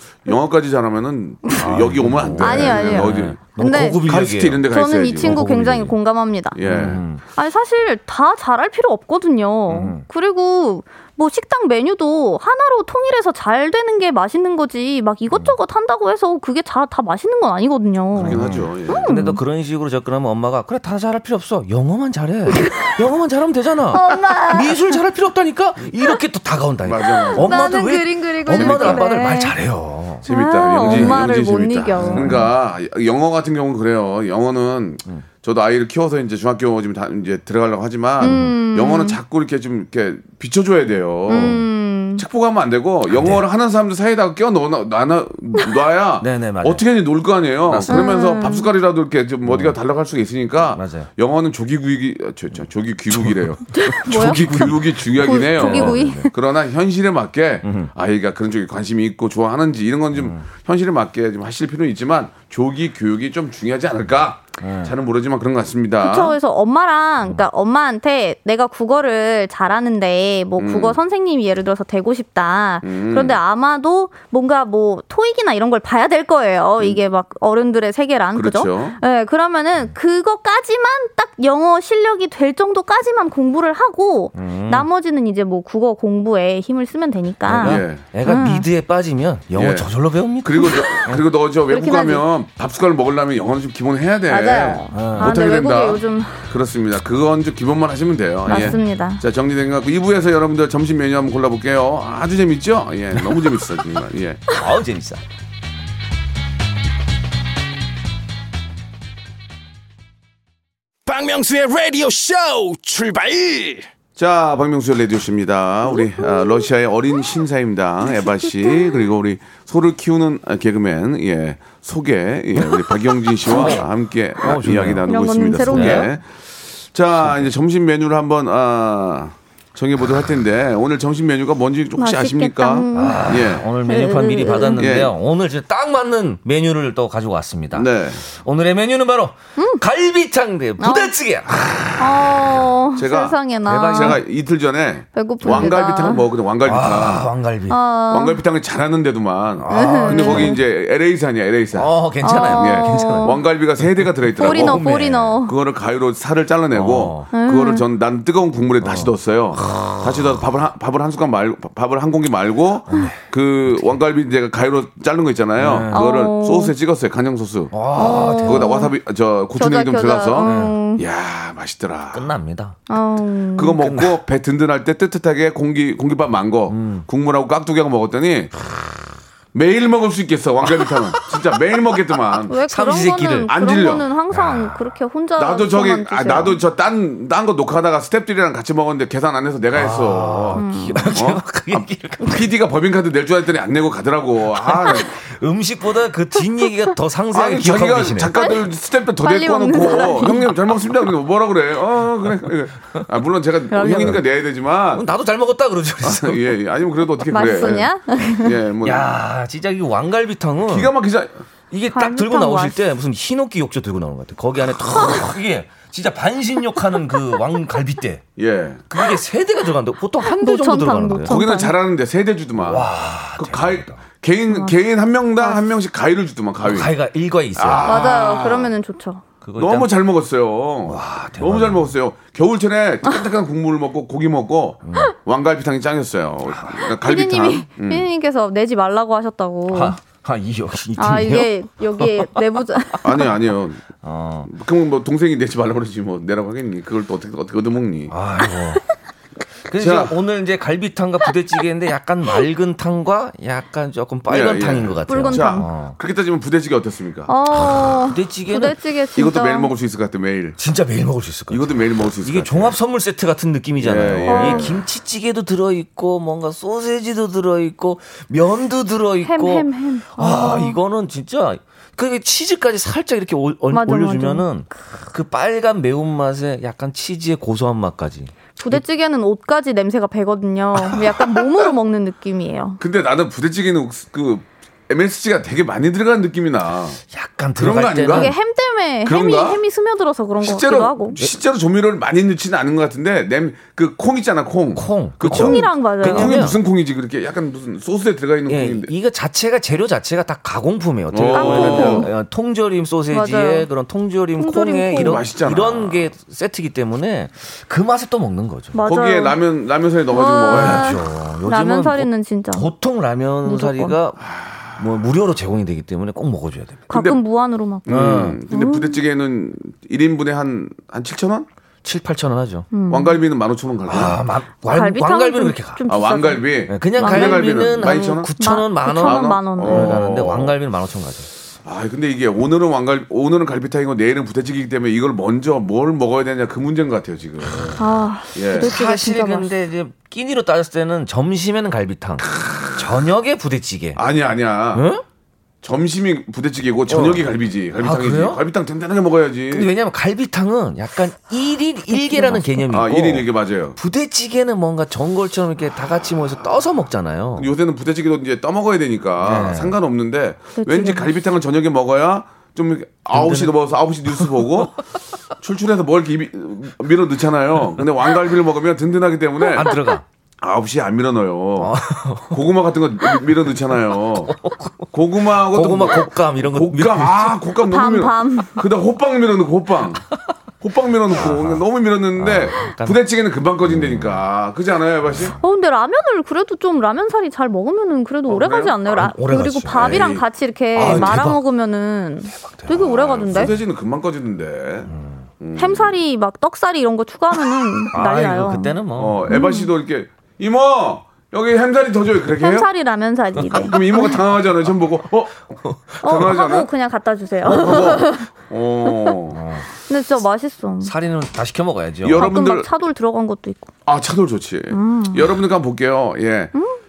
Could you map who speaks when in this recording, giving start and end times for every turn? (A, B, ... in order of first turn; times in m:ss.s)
0:00.2-0:05.5 A
0:01.6-0:04.6 B
0:02.4-0:04.0 C
0:04.7-0:06.6 C
0:05.2-0:05.9 B
0:06.5-0:07.0 A
0:06.6-0:07.2 B
0:07.3-0:18.4 C
0:09.7-0:10.0 B
0:18.2-0:19.1 A
0:18.2-0:30.2 B
0:18.9-0:19.4 C
0:22.5-0:22.9 C
0:23.9-0:24.9 C
0:26.8-0:27.6 A
0:27.0-0:29.6 C
0:28.5-0:29.1 A
0:30.2-0:41.6 A
0:30.2-0:32.4 C
0:30.8-0:31.2 B
0:32.0-0:32.5 B
0:38.2-0:39.2 C
0:38.2-0:38.6 B
0:41.3-0:42.2 C
0:41.3-0:41.6 B
0:42.2-1:06.4 A
0:43.1-0:43.4 B
0:46.2-0:46.8 B
0:47.6-0:48.1 B
0:47.9-0:48.7 C
0:49.4-0:49.8 B
0:50.7-0:51.1 B
0:53.1-0:56.3 B
0:53.7-0:56.3 C
0:57.6-0:57.9 B
1:00.1-1:00.4 B
1:04.6-1:04.9 B
1:06.0-1:28.6 C
1:10.6-1:11.0 A
1:12.8-1:13.4 A
1:18.3-1:19.0 A
1:24.3-1:24.9 B
1:27.4-1:31.2 B
1:27.6-1:28.0 A
1:29.5-1:29.9 A
1:30.4-1:44.5 A
1:31.7-1:32.2 C
1:34.3-1:36.5 C
1:34.9-1:35.3 B
1:38.5-1:39.2 C
1:44.5-1:45.2 B
1:51.0-1:53.9 D
1:54.2-2:13.6 A
1:56.1-1:56.6 C
1:58.1-1:59.1 C
2:03.4-2:03.8 B
2:04.4-2:05.0 B
2:05.0-2:06.1 C
2:05.6-2:06.0 B
2:07.2-2:07.5 B
2:12.0-2:14.8 C
2:12.9-2:21.7 B
2:14.8-2:15.1 A
2:17.7-2:18.2 A
2:19.6-2:19.8 C
2:20.8-2:21.1 C
2:21.6-2:22.0 A
2:22.0-2:24.2 C
2:23.0-2:23.4 A
2:23.6-2:24.2 B
2:23.9-2:27.3 A
2:25.1-2:26.2 C
2:25.4-2:25.8 B
2:26.6-2:27.8 B
2:27.7-2:28.4 C
2:28.1-2:31.9 A
2:29.6-2:30.6 B
2:29.7-2:30.6 C
2:31.7-2:35.4 B
2:32.2-2:33.4 C
2:32.5-2:34.9 A
2:34.4-2:35.5 C
2:35.4-2:52.3 A
2:36.7-2:37.3 B
2:37.3-2:37.8 C
2:38.8-2:40.4 B
2:42.9-2:43.9 B
2:45.6-2:46.0 B
2:45.9-2:46.7 C
2:47.7-2:48.7 B
2:47.9-2:48.9 C
2:49.6-2:51.0 C
2:50.4-2:50.8 B
2:52.1-2:52.8 B
2:52.9-2:53.8 C
2:53.6-2:58.5 A
2:53.8-2:54.2 B
2:56.7-2:57.1 B
2:59.5-3:02.5 A
3:00.8-3:01.3 B
3:02.5-3:06.6 C
3:02.7-3:03.5 B
3:03.5-3:04.1 A
3:04.3-3:04.8 B
3:05.4-3:15.1 A
3:09.7-3:12.4 B
3:10.5-3:11.0 C
3:14.5-3:18.3 B
3:17.3-3:25.0 A
3:19.2-3:20.5 C
3:23.7-3:24.2 C
3:23.9-3:24.2 B
3:24.9-3:26.5 B
3:26.0-3:29.1 A
3:27.3-3:28.6 C
3:28.8-3:30.9 B
3:30.7-3:31.4 A
3:31.7-3:38.2 B
3:31.9-3:32.8 C
3:38.4-3:38.8 A
3:38.9-3:41.4 B
3:40.2-3:41.7 C
3:41.3-3:46.9 A
3:42.6-3:44.0 B
3:44.5-3:44.8 C
3:46.6-3:48.1 B
3:47.6-3:48.7 A
3:47.8-3:49.2 C
3:49.4-3:49.9 B
3:49.6-3:58.1 A
3:50.9-3:51.9 B
3:54.8-3:55.1 B
3:56.5-3:56.8 B
3:57.0-4:00.0 C
3:59.7-4:02.3 B
4:01.0-4:03.2 C
4:03.0-4:03.8 A
4:04.0-4:04.5 B
4:04.4-4:08.1 A
4:08.1-4:08.8 B
4:09.6-4:16.0 B
4:09.7-4:10.1 A
4:14.3-4:17.3 A
4:15.1-4:15.6 C
4:17.3-4:19.7 C
4:17.5-4:18.8 B
4:19.2-4:20.6 A
4:20.6-4:38.8 B
4:21.5-4:22.8 A
4:23.8-4:24.8 A
4:24.2-4:24.8 C
4:29.2-4:30.8 C
4:33.7-4:34.5 C
4:38.6-4:42.8 C
4:42.8-4:47.0 A
4:47.1-4:48.3 B
4:47.6-4:48.3 A
4:48.1-4:51.2 C
4:49.0-4:49.6 A
4:50.4-4:58.9 A
4:54.7-4:56.6 B
4:55.2-4:56.5 C
4:58.5-5:08.8 B
5:01.1-5:02.1 A
5:01.3-5:02.1 C
5:03.1-5:03.7 C
5:04.4-5:05.2 C
5:04.9-5:06.1 A
5:08.7-5:09.4 C
5:08.8-5:11.0 A
5:10.1-5:12.7 C
5:10.5-5:14.2 B
5:13.4-5:14.0 C
5:14.2-5:15.0 A
5:14.8-5:16.9 B
5:16.9-5:17.9 C
5:16.9-5:17.2 A
5:17.8-5:21.5 A
5:17.9-5:18.4 B
5:18.5-5:19.0 C
5:21.8-5:22.7 B
5:22.7-5:23.2 C
5:22.9-5:24.2 A
5:23.9-5:25.8 B
5:24.6-5:30.0 C
5:25.9-5:28.3 A
5:26.7-5:31.3 B
5:28.9-5:30.6 A
5:31.6-5:37.8 A
5:37.8-5:39.5 C
5:38.3-5:38.7 A
5:38.6-5:44.0 B
5:42.2-5:43.0 A
5:44.0-5:44.8 A
5:44.7-5:45.0 B
5:45.6-5:49.7 A
5:46.9-5:48.4 B
5:49.5-5:57.5 B
5:51.9-5:52.6 C
5:52.7-5:53.8 A
5:57.4-6:04.8 A
5:59.2-5:59.7 B
6:00.6-6:01.1 C
6:03.1-6:04.4 B
6:05.4-6:09.8 A
6:09.5-6:10.0 B
6:10.4-6:11.8 A
6:11.6-6:12.4 B
6:12.3-6:14.3 A
6:13.0-6:13.5 B
6:14.0-6:17.4 B
6:14.9-6:20.0 A
6:17.6-6:18.6 C
6:20.6-6:25.3 A
6:21.2-6:21.6 B
6:22.2-6:23.0 B
6:23.6-6:24.2 B
6:25.1-6:25.3 B
6:25.4-6:33.5 C
6:28.3-6:28.8 A
6:28.9-6:30.0 B
6:29.7-6:31.2 A
6:30.7-6:31.4 B
6:32.3-6:33.5 B
6:32.8-6:36.0 A
6:34.9-6:35.2 B
6:35.6-6:38.7 C
6:37.9-6:39.2 B
6:39.0-6:42.7 A
6:39.3-6:39.7 C
6:42.4-6:44.2 C
6:43.4-6:46.7 A
6:45.6-6:46.0 B
6:46.0-6:48.2 C
6:47.4-6:49.4 A
6:47.5-6:48.1 B
6:49.3-6:49.7 B
6:49.9-6:50.9 C
6:50.8-6:52.3 B
6:52.0-6:52.7 A
6:52.2-6:53.7 C
6:53.8-6:56.5 A
6:54.7-6:55.3 C